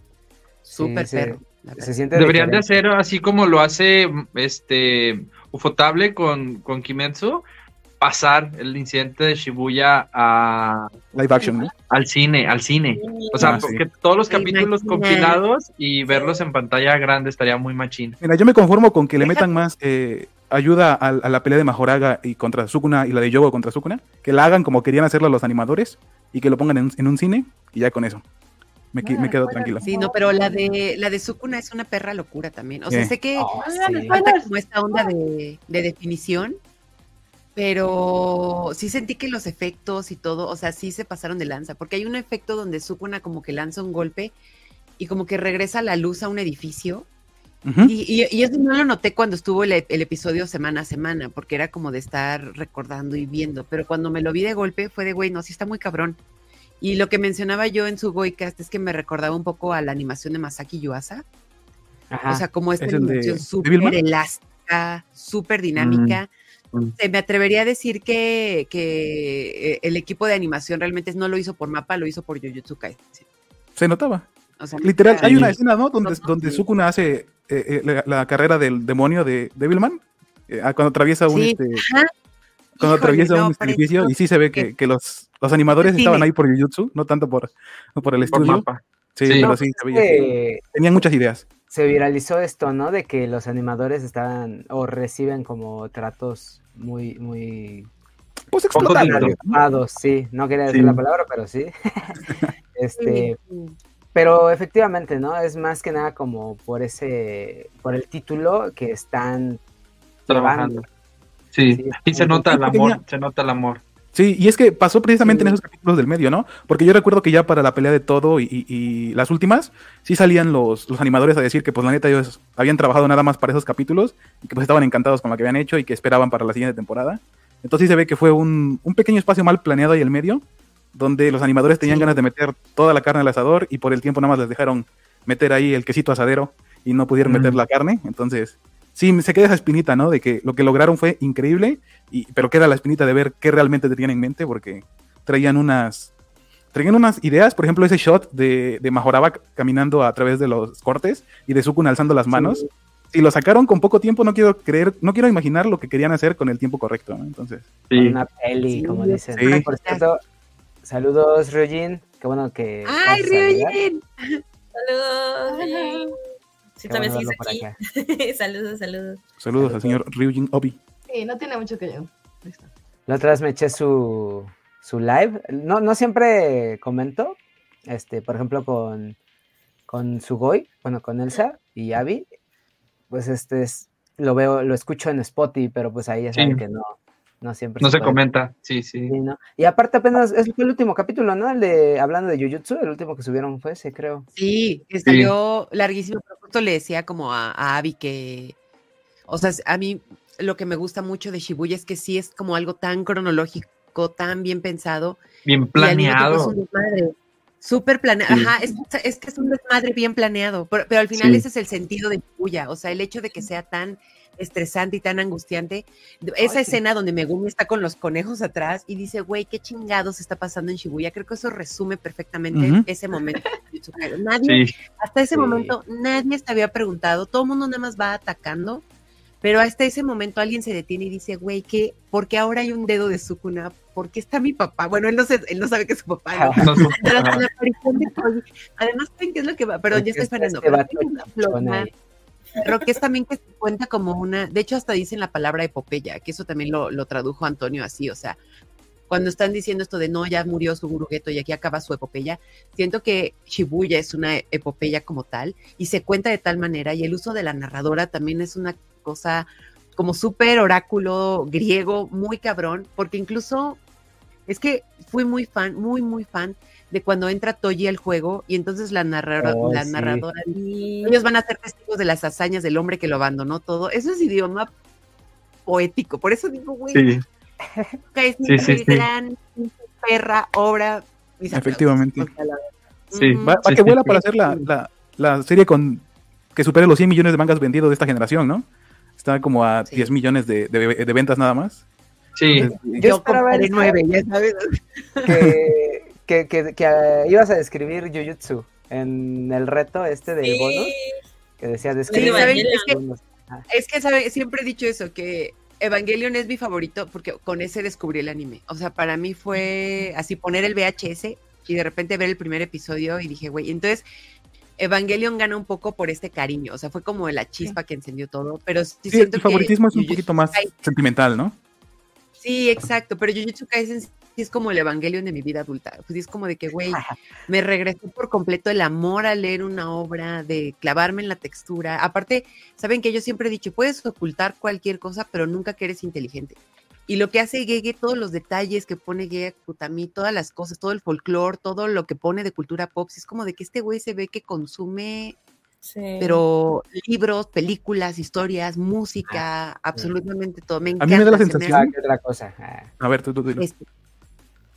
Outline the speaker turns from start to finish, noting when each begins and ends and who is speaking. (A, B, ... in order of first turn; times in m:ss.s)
0:00.6-0:01.9 A
0:00.7-0:02.8 B
0:02.1-0:07.4 C
0:08.0-0:11.0 C
0:11.1-0:11.7 D
0:11.9-0:18.2 C
0:12.9-0:13.6 E
0:13.4-0:13.8 D
0:14.3-0:15.4 A
0:18.2-0:28.2 D
0:19.2-0:19.5 A
0:28.9-0:29.9 D
0:29.0-0:30.7 F
0:29.8-0:36.6 A
0:33.4-0:34.2 B
0:33.6-0:35.1 F
0:37.6-0:44.3 A
0:45.0-0:47.1 A
0:47.6-0:47.9 D
0:47.8-0:56.2 A
0:56.8-1:01.2 A
1:02.1-1:02.4 B
1:02.3-1:06.3 A
1:02.8-1:04.0 D
1:05.8-1:06.2 C
1:07.0-1:13.2 A
1:13.8-1:14.3 D
1:14.6-1:16.6 A
1:14.8-1:21.8 D
1:15.2-1:15.6 C
1:21.3-1:22.1 A
1:22.8-1:24.7 A
1:22.8-1:31.5 D
1:25.8-1:26.3 A
1:28.3-1:29.5 C
1:29.4-1:30.6 B
1:31.7-1:37.9 B
1:38.5-1:39.6 D
1:38.8-1:39.4 C
1:38.8-1:42.2 B
1:40.7-1:41.0 C
1:42.8-1:43.4 B
1:43.0-1:43.8 A
1:44.2-1:49.6 B
1:50.3-1:50.9 B
1:50.3-1:50.8 C
1:51.5-1:53.8 C
1:51.7-1:52.6 B
1:52.5-1:53.0 D
1:54.1-2:26.1 D
2:11.8-2:12.2 A
2:17.2-2:17.6 C
2:26.7-2:37.8 D
2:32.3-2:32.7 B
2:37.9-2:38.2 C
2:37.9-2:40.2 B
2:38.7-2:40.0 A
2:39.4-2:39.7 D
2:40.8-2:43.8 B
2:42.8-2:44.4 A
2:44.7-2:46.2 E
2:45.5-2:46.1 F
2:46.8-2:49.2 E
2:46.9-2:47.8 B
2:49.4-2:50.8 D
2:49.6-2:50.0 B
2:51.1-2:52.7 F
2:53.1-2:59.2 B
2:59.9-3:02.3 B
3:03.1-3:08.2 B
3:06.4-3:06.6 C
3:07.8-3:09.2 C
3:09.1-3:14.3 B
3:14.4-3:18.6 A
3:15.1-3:15.3 C
3:19.3-3:25.2 A
3:25.5-3:26.5 C
3:25.8-3:48.8 A
3:31.2-3:31.4 C
3:42.5-3:42.9 D
3:44.4-3:44.7 C
3:45.3-3:45.7 B
3:49.4-4:01.9 A
3:56.3-3:57.0 B
3:56.6-3:57.4 C
3:59.9-4:01.9 B
4:02.6-4:08.4 A
4:09.1-4:23.8 A
4:24.5-4:34.7 A
4:29.4-4:30.3 B
4:30.5-4:31.2 E
4:35.7-4:37.2 A
4:36.9-4:37.2 C
4:38.1-4:44.7 A
4:38.5-4:39.1 C
4:41.5-4:42.3 D
4:43.2-4:44.2 C
4:43.4-4:48.7 D
4:49.2-4:51.8 D
4:52.4-4:52.7 C
4:52.6-4:53.0 D
4:53.0-4:55.3 A
4:53.0-4:54.0 B
4:55.2-5:00.9 B
5:00.4-5:01.2 E
5:01.6-5:03.7 B
5:02.1-5:02.9 E
5:02.1-5:03.0 A
5:03.7-5:14.1 A
5:14.8-5:20.8 A
5:19.1-5:21.6 D
5:22.4-5:45.4 A
5:45.8-5:46.4 E
5:46.2-5:51.8 A
5:51.0-5:51.9 D
5:51.7-5:52.9 B
5:53.0-5:53.6 D
5:53.6-5:53.9 A